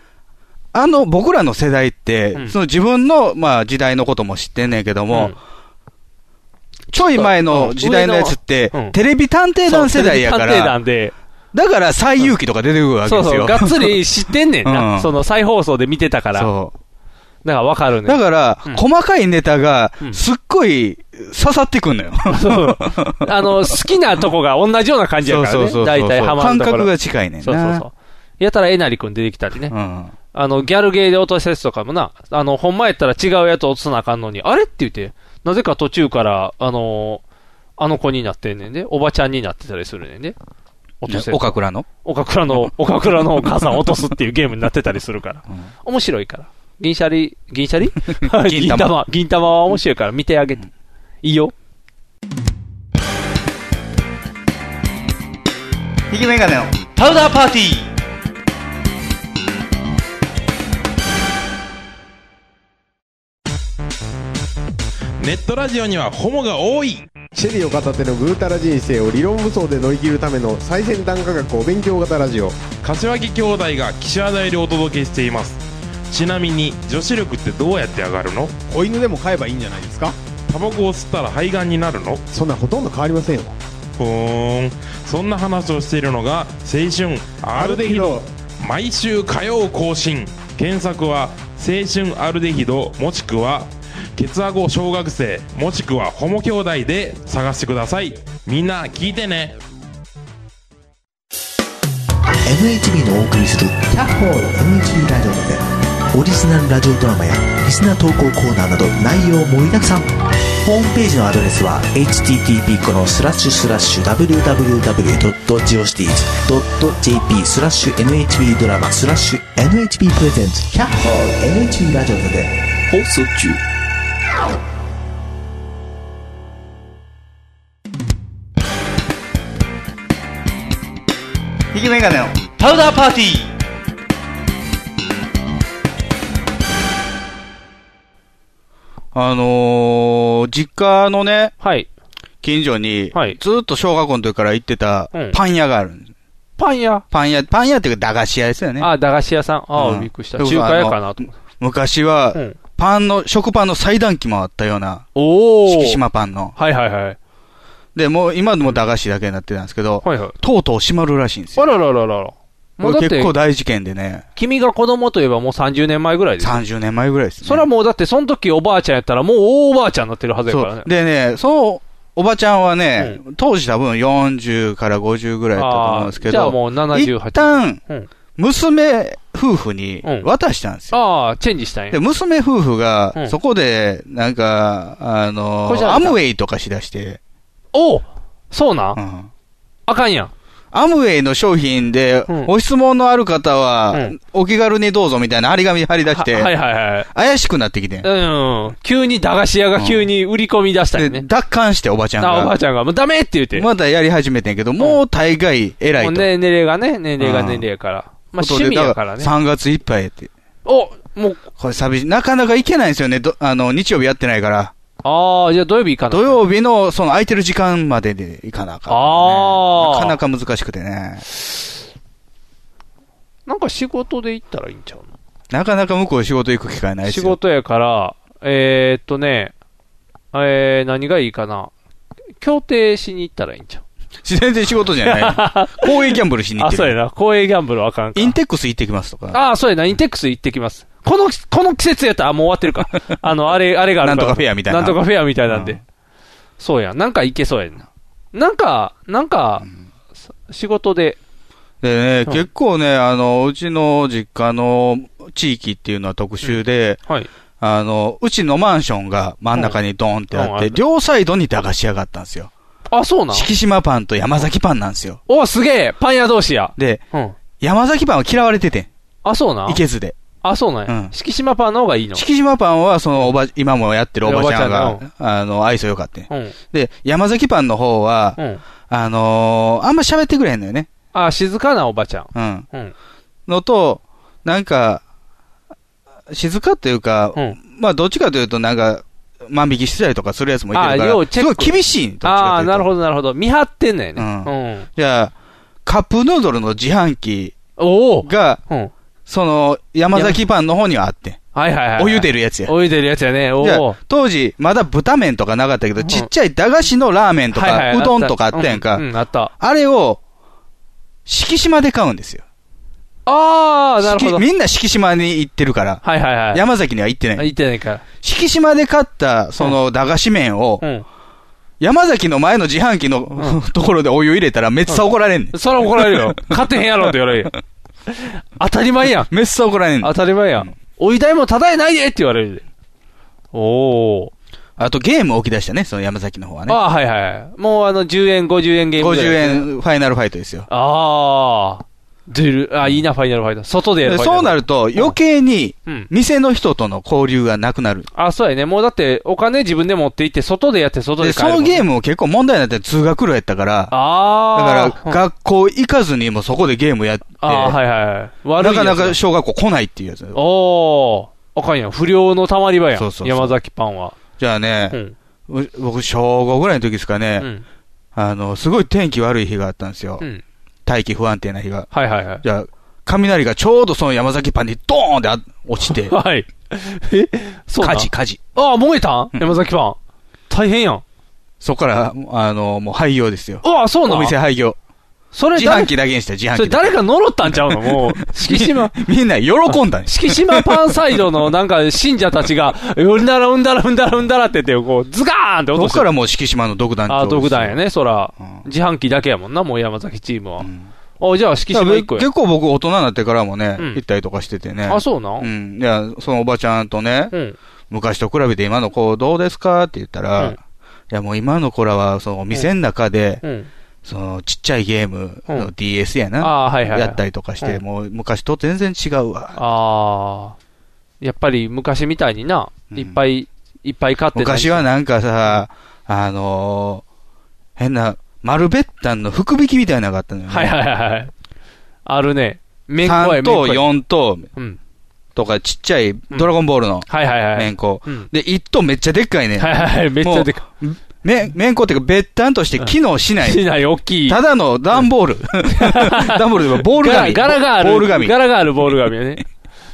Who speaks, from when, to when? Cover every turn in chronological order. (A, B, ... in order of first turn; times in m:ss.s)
0:00.7-0:05.4 A
0:06.9-0:10.8 A
0:07.0-0:09.0 B
0:09.7-0:11.2 B
0:11.5-0:14.0 A
0:13.1-0:16.5 B
0:14.6-0:15.1 A
0:16.4-0:16.7 A
0:17.4-0:18.8 B
0:18.1-0:23.7 A
0:22.3-0:29.7 B
0:25.2-0:27.8 A
0:29.7-0:30.1 A
0:30.3-0:37.2 B
0:37.8-0:40.4 B
0:41.0-0:50.6 B
0:41.1-0:41.9 A
0:48.1-0:49.0 A
0:51.2-0:51.5 B
0:56.1-0:56.7 A
0:57.0-0:57.9 C
1:05.2-1:07.2 D
1:07.4-1:12.6 E
1:12.8-1:18.6 D
1:18.7-1:20.2 E
1:20.5-1:22.2 D
1:22.3-1:23.6 E
1:24.0-1:39.6 D
1:27.5-1:28.2 E
1:42.4-2:02.6 F
2:02.9-2:03.6 C
2:11.7-2:12.4 A
2:12.6-2:13.5 C
2:19.1-2:21.5 A
2:21.6-2:21.9 B
2:22.4-2:26.1 A
2:25.1-2:25.4 B
2:26.6-2:27.0 B
2:27.1-2:28.9 A
2:28.8-2:31.3 B
2:29.8-2:35.1 A
2:35.2-2:36.0 B
2:35.7-2:36.5 A
2:36.6-2:37.2 B
2:38.0-2:41.7 A
2:40.0-2:40.4 B
2:41.6-2:43.3 B
2:42.8-2:44.2 A
2:44.4-2:46.6 B
2:46.4-2:47.7 A
2:47.4-2:50.9 B
2:50.5-2:57.8 A
2:55.6-2:58.1 B
2:58.4-3:01.0 A
3:00.9-3:02.0 B
3:01.9-3:07.2 A
3:05.7-3:06.2 B
3:07.7-3:09.0 B
3:09.0-3:09.3 A
3:09.9-3:10.3 B
3:10.7-3:16.5 A
3:16.1-3:17.1 B
3:17.1-3:18.1 A
3:18.0-3:21.3 B
3:19.8-3:20.1 A
3:21.0-3:22.5 A
3:22.2-3:23.7 B
3:23.5-3:26.3 A
3:26.0-3:29.3 B
3:27.2-3:27.7 A
3:28.4-3:30.3 A
3:30.7-3:31.4 B
3:31.6-3:34.7 A
3:35.0-3:36.4 B
3:36.1-3:41.2 A
3:38.9-3:40.2 B
3:43.5-3:45.1 B
3:45.5-3:47.4 A
3:47.0-3:49.5 B
3:50.3-3:51.7 B
3:52.4-3:53.8 B
3:54.2-3:57.0 A
3:55.0-3:58.4 B
3:58.2-3:59.4 A
3:59.3-4:05.8 B
4:04.0-4:05.8 A
4:06.6-4:09.7 B
4:10.5-4:11.2 B
4:11.8-4:17.0 A
4:16.4-4:17.3 B
4:17.6-4:22.5 A
4:20.3-4:20.8 B
4:22.9-4:23.5 B
4:23.3-4:25.2 A
4:25.3-4:27.4 B
4:26.8-4:27.0 A
4:27.6-4:28.9 A
4:29.2-4:29.8 B
4:29.7-4:30.2 A
4:30.4-4:32.2 B
4:30.9-4:31.1 A
4:32.1-4:38.4 A
4:34.2-4:35.0 B
4:36.3-4:36.6 B
4:38.4-4:38.6 B
4:38.9-4:40.9 A
4:41.1-4:42.9 B
4:42.4-4:42.7 A
4:43.5-4:45.0 A
4:46.3-4:52.9 A
4:50.7-4:54.9 B
4:54.2-4:55.3 A
4:55.8-4:57.6 A
4:57.8-4:58.9 B
4:58.2-4:58.6 A
4:59.3-5:01.4 A
5:00.1-5:00.4 B
5:01.6-5:04.0 B
5:02.0-5:02.7 A
5:03.6-5:09.1 A
5:06.0-5:06.3 B
5:07.5-5:09.5 B
5:09.6-5:10.2 A
5:11.3-5:12.4 A
5:13.3-5:14.4 B
5:14.0-5:17.5 A
5:16.0-5:16.6 B
5:17.4-5:18.0 B
5:18.2-5:20.8 A
5:21.8-5:26.6 A
5:25.5-5:27.5 B
5:28.1-5:29.3 B
5:29.3-5:30.7 A
5:30.0-5:32.6 B
5:33.5-5:34.3 B
5:34.8-5:36.8 A
5:36.7-5:39.7 B
5:39.0-5:40.7 A
5:40.7-5:45.2 B
5:44.0-5:48.1 A
5:48.2-5:51.8 B
5:51.2-5:53.9 A
5:53.9-5:55.2 B
5:54.5-5:57.8 A
5:57.4-5:59.2 B
5:58.6-6:00.4 A
6:00.4-6:04.2 B
6:03.0-6:03.6 A
6:04.4-6:05.0 A
6:05.5-6:07.5 A
6:08.2-6:10.2 A
6:10.9-6:11.9 A
6:11.9-6:12.4 B
6:12.4-6:16.2 A
6:15.9-6:20.0 B
6:17.8-6:18.4 A
6:20.5-6:21.0 B
6:21.6-6:24.8 A
6:23.6-6:24.4 B
6:25.3-6:25.9 B
6:25.5-6:27.0 A
6:26.5-6:29.0 B
6:27.5-6:31.2 A
6:29.7-6:36.1 B
6:35.8-6:37.8 A
6:37.1-6:40.7 B
6:40.6-6:40.9 A
6:41.2-6:42.3 B
6:41.7-6:47.3 A
6:44.9-6:45.5 B
6:47.9-6:50.6 A
6:51.1-6:53.4 A
6:53.4-6:53.7 B
6:54.0-6:59.6 A
6:56.4-6:57.8 B
6:59.6-7:00.6 B
7:01.2-7:04.9 B
7:02.9-7:03.2 A
7:04.3-7:07.0 A
7:07.8-7:10.8 A
7:10.5-7:11.3 B
7:12.1-7:13.9 B
7:13.0-7:14.5 A
7:15.4-7:23.6 A
7:17.1-7:18.3 B
7:19.6-7:20.7 B
7:22.8-7:24.4 B
7:24.3-7:28.9 A
7:25.7-7:29.4 B